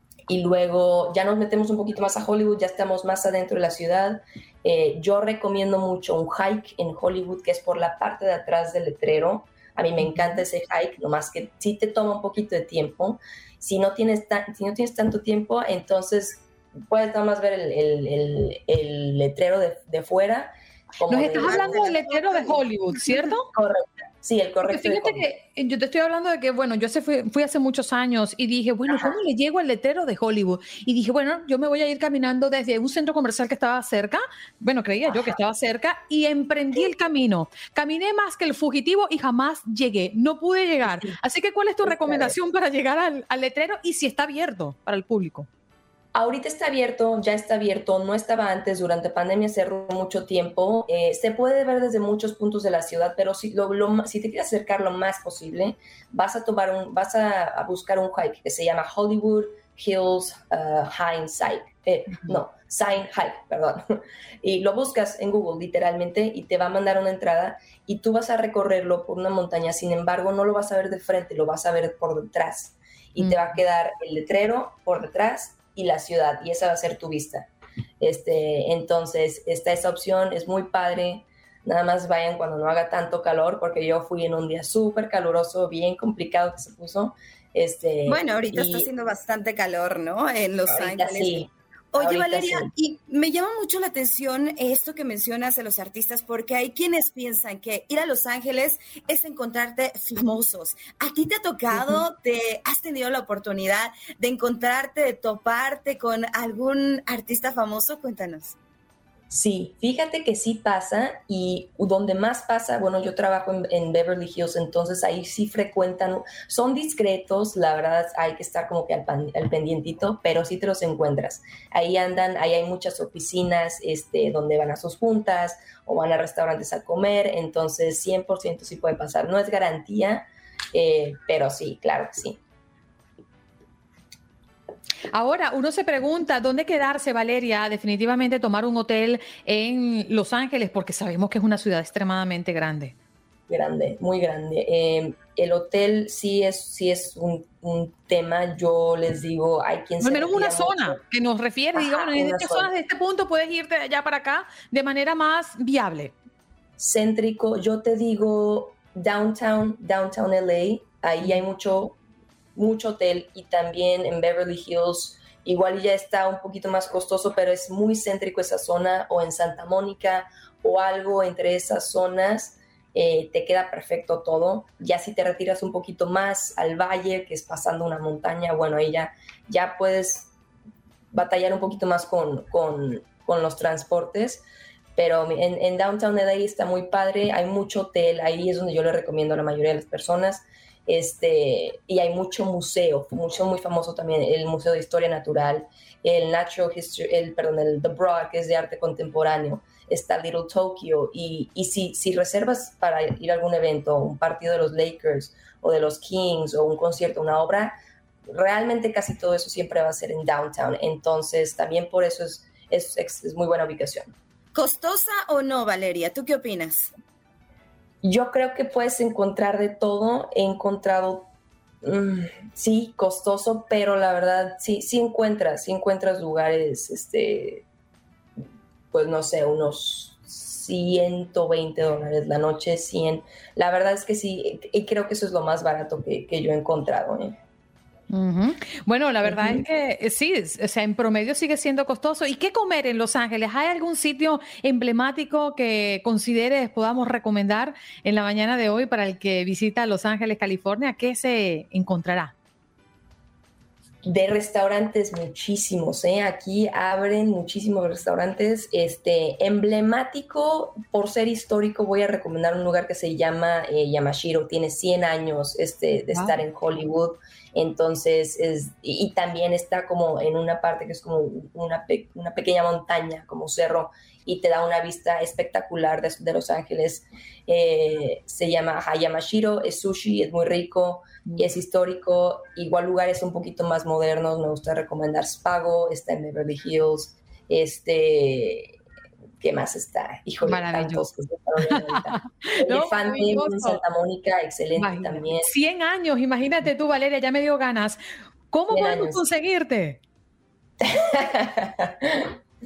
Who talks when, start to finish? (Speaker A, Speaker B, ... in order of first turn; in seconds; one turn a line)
Speaker A: 0.3-21.8
Speaker B: 10.1-10.4
Speaker B: 21.1-23.5
Speaker C: 21.2-22.7
Speaker A: 23.5-25.2
Speaker B: 24.6-45.5
Speaker A: 28.9-29.1
Speaker A: 41.8-42.3
Speaker A: 46.1-77.5
Speaker B: 73.2-73.6
Speaker A: 78.0-88.9
Speaker C: 88.1-108.5
Speaker A: 90.7-92.7
Speaker A: 101.7-102.0
Speaker A: 109.3-132.4
Speaker B: 135.1-142.9
Speaker A: 143.5-151.0
Speaker B: 150.0-156.1
Speaker A: 151.8-152.7
Speaker A: 156.8-162.0
Speaker A: 162.6-180.3
Speaker A: 181.1-184.4
Speaker A: 185.0-207.8
Speaker A: 208.3-214.1
Speaker C: 214.5-216.9
Speaker A: 218.0-221.3
Speaker A: 221.8-227.7
Speaker A: 228.9-237.4
Speaker B: 238.1-252.3
Speaker A: 239.2-239.6
Speaker A: 254.1-288.7
Speaker A: 289.4-295.5
Speaker B: 290.4-291.1
Speaker B: 291.9-293.8
Speaker B: 294.8-298.0
Speaker B: 298.5-300.0
Speaker A: 298.7-299.2
Speaker A: 300.8-302.4